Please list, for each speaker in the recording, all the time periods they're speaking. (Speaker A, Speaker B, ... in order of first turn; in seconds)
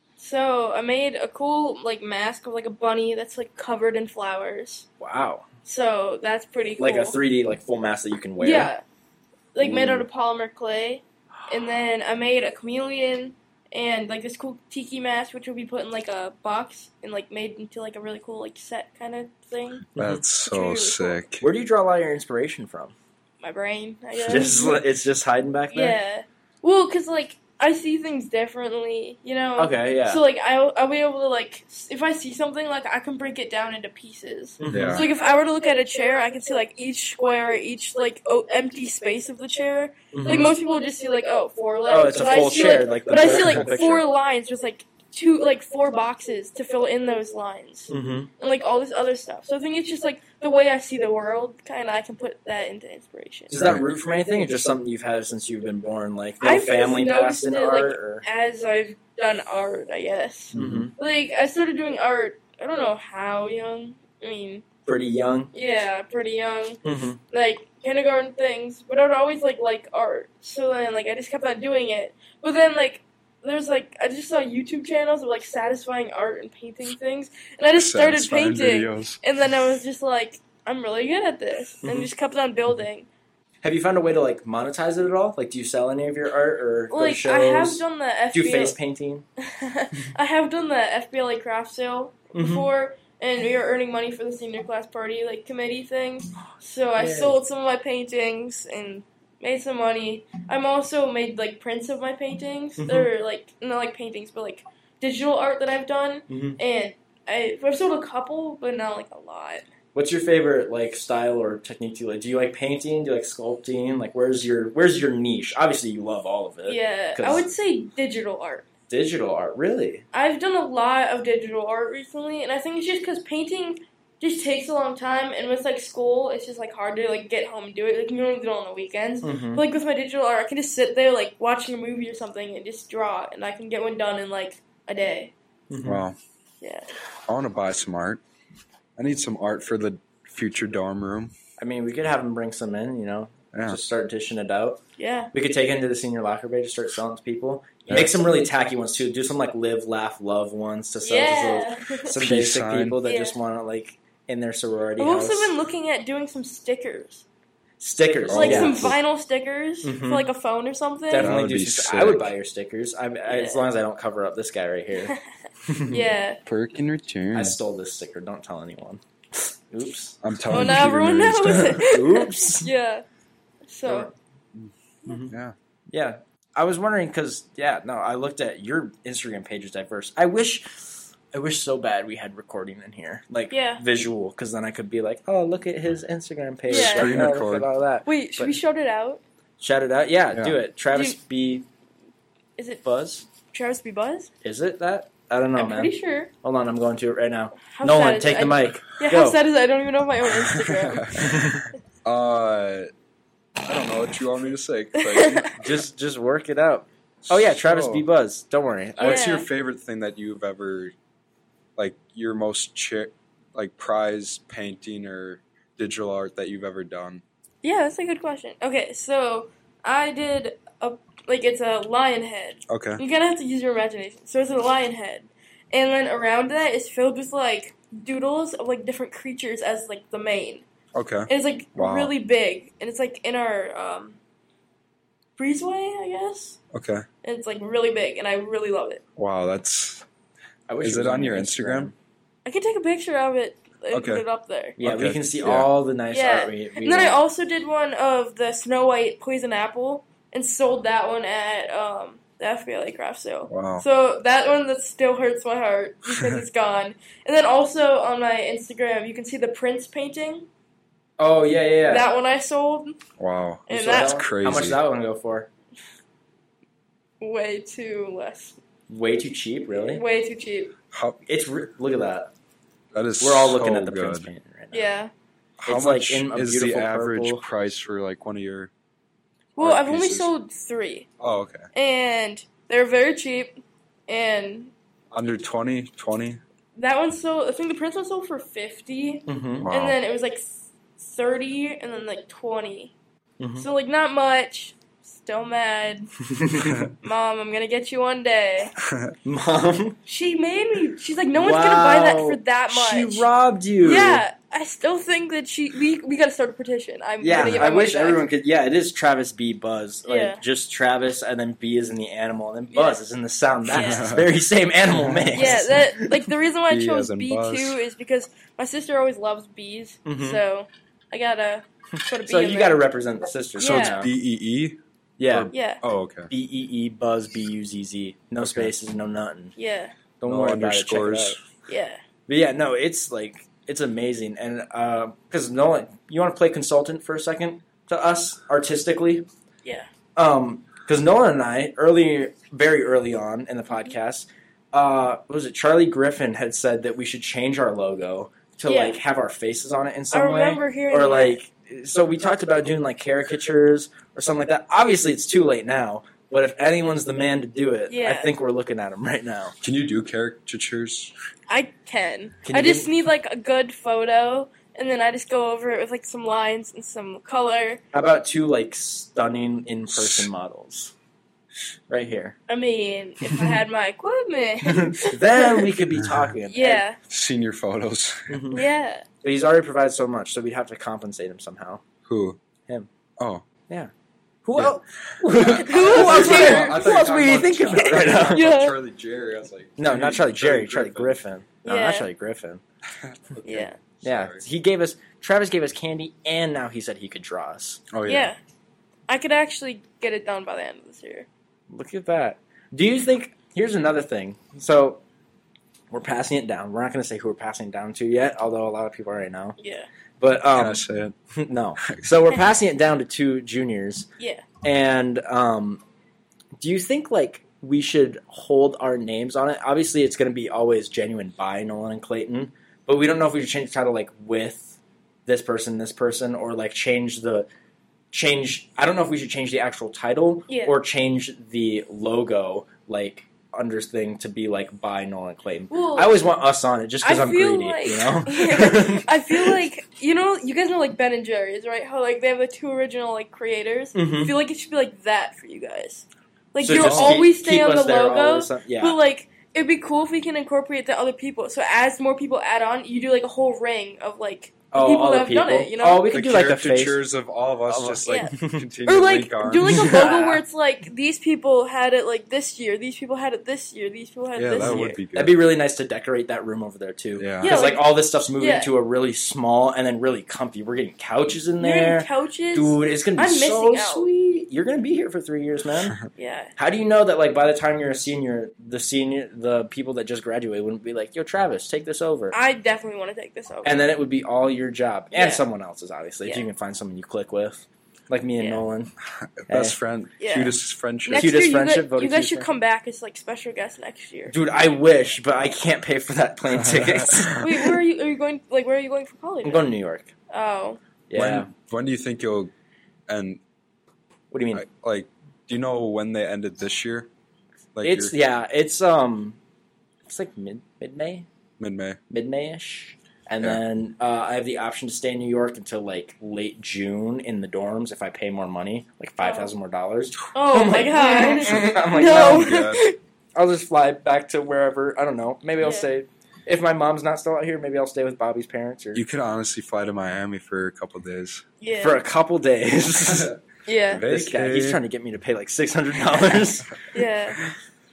Speaker A: 0.2-4.8, 5.6-7.2, 8.4-8.8, 9.5-19.9, 20.4-21.2, 23.4-24.8, 25.7-53.6, 56.4-64.6, 65.5-83.1, 86.9-88.8, 89.4-109.6, 116.7-118.7, 120.1-135.3, 136.6-136.9, 145.0-145.3, 151.0-152.2, 153.0-153.4, 155.0-157.2, 158.3-161.3, 163.3-163.6, 165.9-166.4, 170.5-173.0, 173.7-174.1, 183.5-183.8, 186.7-187.2, 188.1-189.2, 190.9-191.2, 192.6-192.8, 193.4-194.3, 195.6-196.3, 197.7-201.4, 205.0-205.6, 209.0-209.5, 217.6-230.6, 231.3-234.2, 235.4-236.6, 237.2-239.0, 242.4-244.8, 246.1-260.5, 261.9-263.0, 263.7-264.2, 267.2-268.6, 269.7-270.7, 274.7-275.1, 279.6-281.1, 281.7-284.7, 286.8-292.9, 293.6-296.1, 297.0-298.7, 300.1-303.2, 303.8-308.2, 310.0-310.4, 312.7-313.0, 313.7-314.1, 315.3-322.8, 323.6-324.0, 325.5-325.8, 329.6-329.9, 331.7-332.0, 339.6-339.9, 348.6-349.0, 350.1-351.4, 357.9-358.3, 361.5-367.8, 372.5-375.7, 376.5-377.0, 378.5-379.0, 385.5-387.1, 387.8-388.8, 391.6-392.1, 393.4-393.8, 398.1-398.4, 399.1-401.3, 409.6-409.9, 414.2-414.4, 430.5-430.8, 435.7-436.2, 437.0-456.1, 458.0-458.3, 458.9-464.9, 467.4-468.7, 471.6-474.1, 476.1-476.5, 482.3-483.8, 485.1-485.4, 488.4-488.6, 490.2-494.3, 497.4-499.7, 500.3-500.8, 519.2-519.5, 520.3-523.0, 525.6-525.9, 531.6-532.0, 533.6-534.0, 536.9-537.4
Speaker B: 5.0-5.5, 6.8-8.7, 9.6-10.1, 19.9-20.2, 21.4-22.9, 24.2-26.0, 29.6-30.2, 34.6-35.1, 40.1-40.5, 41.9-44.0, 47.9-48.3, 53.5-58.2, 60.5-60.9, 64.8-65.5, 66.8-67.2, 81.8-82.1, 83.6-89.2, 92.3-92.7, 97.0-97.3, 102.8-103.1, 106.3-106.6, 109.9-117.5, 118.9-120.0, 129.2-129.6, 135.7-136.0, 141.6-144.8, 145.3-155.5, 157.8-158.9, 159.8-160.3, 161.1-166.1, 167.3-170.8, 171.4-172.7, 173.8-174.1, 175.1-175.3, 175.9-188.6, 189.6-191.7, 192.8-193.2, 194.4-199.4, 201.2-201.6, 205.6-209.3, 240.7-241.9, 244.8-247.2, 261.2-262.1, 263.7-265.5, 268.9-270.0, 271.3-272.3, 273.2-274.9, 275.6-277.4, 289.3-289.7, 293.4-293.7, 296.3-296.9, 299.2-300.0, 301.3-304.2, 307.2-316.2, 320.1-320.4, 322.2-324.1, 325.2-325.5, 326.3-329.5, 330.2-331.4, 332.3-339.2, 340.1-359.6, 362.4-362.9, 367.9-370.9, 371.9-372.4, 374.6-376.8, 378.3-378.6, 379.2-381.8, 384.4-388.5, 389.8-392.6, 394.0-397.9, 401.7-405.0, 405.9-409.6, 410.2-410.8, 411.3-414.1, 414.6-415.8, 416.6-427.5, 428.1-439.6, 443.9-444.3, 446.6-449.0, 454.7-457.0, 457.7-458.7, 459.5-460.4, 464.6-476.0, 476.6-482.4, 483.6-488.9, 489.5-489.8, 491.1-492.5, 494.3-497.7, 499.4-500.1, 501.1-501.5, 504.3-504.6, 507.8-509.4, 510.1-511.2, 512.1-522.7, 523.3-529.0, 531.8-533.3, 534.1-536.8
Speaker C: 19.9-21.4, 34.7-35.1, 53.5-53.9, 60.5-60.9, 77.7-79.2, 135.8-136.2, 137.3-138.2, 139.0-141.3, 143.5-143.8, 147.9-148.1, 152.1-153.0, 158.2-159.0, 161.2-162.3, 166.4-167.6, 170.2-171.8, 175.3-175.5, 186.7-187.7, 200.4-202.9, 203.6-205.7, 207.2-208.0, 209.0-210.9, 211.8-217.2, 222.7-223.0, 230.9-232.1, 236.7-237.1, 239.2-240.1, 240.8-241.9, 243.9-244.2, 244.8-245.7, 253.5-253.8, 256.1-256.4, 263.2-264.8, 270.9-271.2, 272.9-274.3, 275.6-278.7, 279.6-280.3, 281.2-281.7, 285.1-286.4, 289.6-290.0, 296.7-296.9, 298.8-299.1, 307.4-307.7, 313.7-314.4, 314.9-315.7, 316.7-317.8, 323.6-326.3, 328.4-328.7, 330.2-331.4, 359.6-361.1, 369.9-370.3, 376.0-376.2, 377.1-378.4, 382.1-382.4, 383.2-383.4, 384.6-391.2, 392.9-394.4, 397.9-398.3, 410.5-411.1, 411.8-412.2, 446.8-447.3, 456.1-460.0, 464.4-465.4, 467.2-467.6, 489.0-491.3, 496.6-497.4, 501.1-502.5, 503.1-503.4, 504.5-507.1, 507.7-508.1, 511.6-512.0, 522.0-522.8, 528.9-531.4, 533.1-533.4, 533.9-534.8